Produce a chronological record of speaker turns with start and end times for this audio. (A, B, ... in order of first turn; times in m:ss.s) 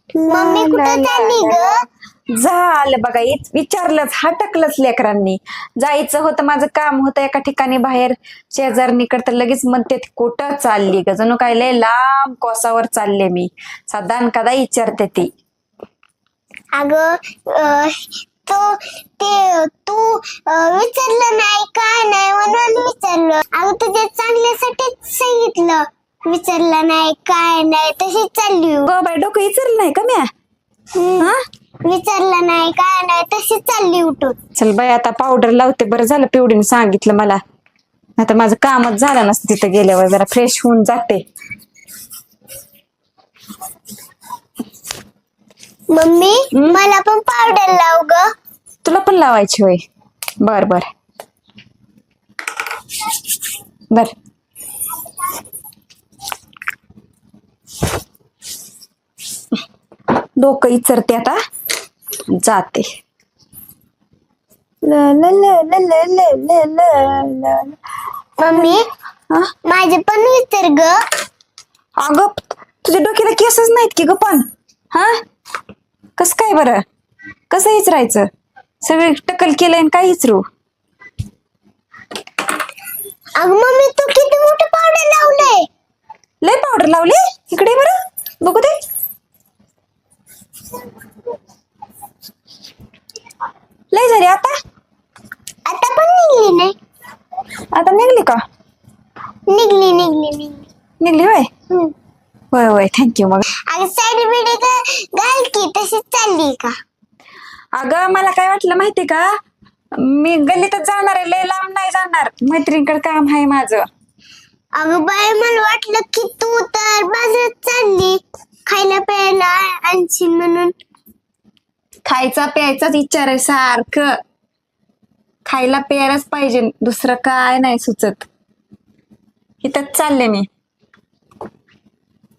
0:00.2-0:01.7 A
0:00.3-0:01.7 B
0:02.4-0:15.3 A
0:16.7-0:28.9 B
0:28.8-0:30.3 A
0:31.0-0:31.3 B
0:31.8-0:34.4 B
0:34.6-0:37.4 A
0:38.2-0:41.2 A
0:45.9-0:48.3 B
0:46.5-0:46.8 A
0:48.8-0:49.8 A
0:50.4-0:50.9 A
1:00.4-1:01.4 A
1:02.4-1:02.9 A
1:04.8-1:07.8 A
1:08.4-1:08.8 B
1:09.6-1:11.0 B
1:12.0-1:15.2 A
1:16.2-1:16.8 A
1:17.5-1:18.3 A
1:18.8-1:20.4 A
1:23.4-1:25.7 B
1:26.4-1:28.8 A
1:33.9-1:34.5 A
1:35.7-1:36.7 B
1:37.7-1:38.4 A
1:39.5-1:40.6 B
1:41.0-1:41.5 A
1:42.5-1:43.5 A
1:43.7-1:46.7 B
1:47.8-1:49.3 A
1:50.0-1:53.9 A
1:54.8-2:00.7 B
2:02.0-2:04.1 A
2:05.4-2:08.3 A
2:09.6-2:10.5 A